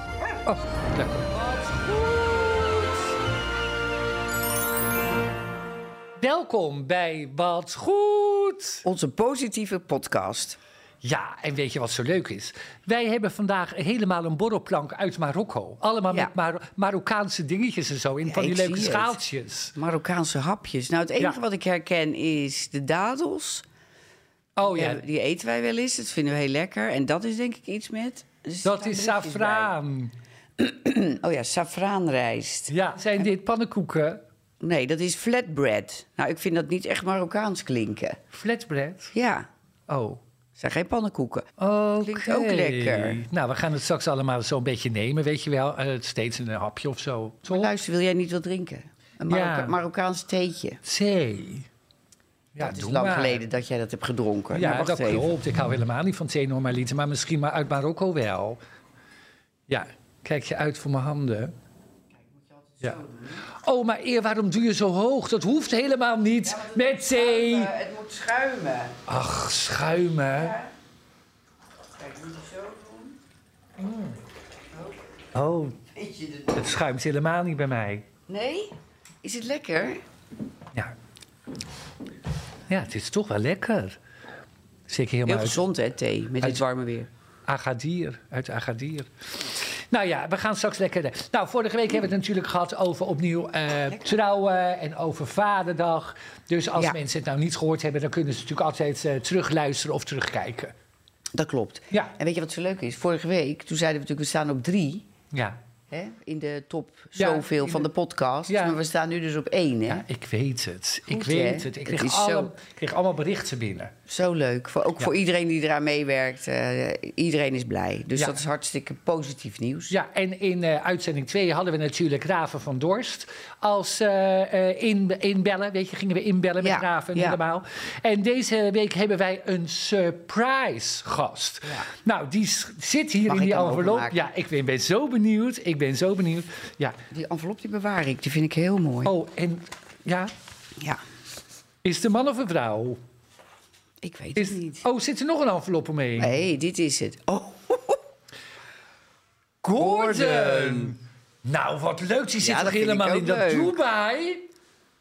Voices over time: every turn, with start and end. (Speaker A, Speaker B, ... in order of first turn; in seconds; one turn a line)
Speaker A: 0.5-3.0
Speaker A: 6.2-8.8
Speaker B: 8.8-10.6
Speaker A: 11.0-19.8
Speaker B: 18.2-19.2
Speaker B: 19.8-23.6
Speaker A: 24.6-25.0
Speaker B: 24.6-29.7
Speaker A: 28.6-30.1
Speaker B: 30.6-33.3
Speaker A: 32.7-34.2
Speaker B: 34.6-38.2
Speaker A: 38.3-39.1
Speaker B: 39.1-39.5
Speaker A: 39.9-40.2
Speaker B: 40.6-43.2
Speaker A: 41.6-47.7
Speaker B: 47.5-50.8
Speaker A: 49.3-49.8
Speaker A: 50.8-51.7
Speaker A: 52.5-53.4
Speaker B: 52.6-55.3
Speaker A: 54.5-58.6
Speaker A: 59.7-61.5
Speaker B: 62.2-63.5
Speaker A: 62.8-67.7
Speaker B: 66.4-69.0
Speaker A: 69.1-70.6
Speaker B: 70.3-70.7
Speaker B: 72.0-73.2
Speaker A: 73.8-74.2
Speaker A: 75.3-75.8
Speaker B: 75.9-76.7
Speaker A: 76.5-78.1
Speaker B: 78.3-80.0
Speaker A: 82.7-84.0
Speaker A: 84.9-85.6
Speaker B: 85.3-87.1
Speaker A: 87.5-100.7
Speaker B: 101.3-105.1
Speaker A: 105.3-105.6
Speaker B: 105.9-110.0
Speaker A: 107.2-107.9
Speaker A: 108.5-108.8
Speaker A: 109.9-113.9
Speaker B: 111.1-112.5
Speaker B: 114.1-119.9
Speaker A: 119.9-137.0
Speaker B: 126.6-127.4
Speaker B: 133.3-134.2
Speaker B: 137.1-139.1
Speaker A: 139.0-140.3
Speaker A: 141.8-143.0
Speaker B: 144.0-144.8
Speaker A: 144.3-146.3
Speaker B: 146.2-148.0
Speaker A: 149.6-154.4
Speaker B: 149.8-150.9
Speaker B: 152.4-153.8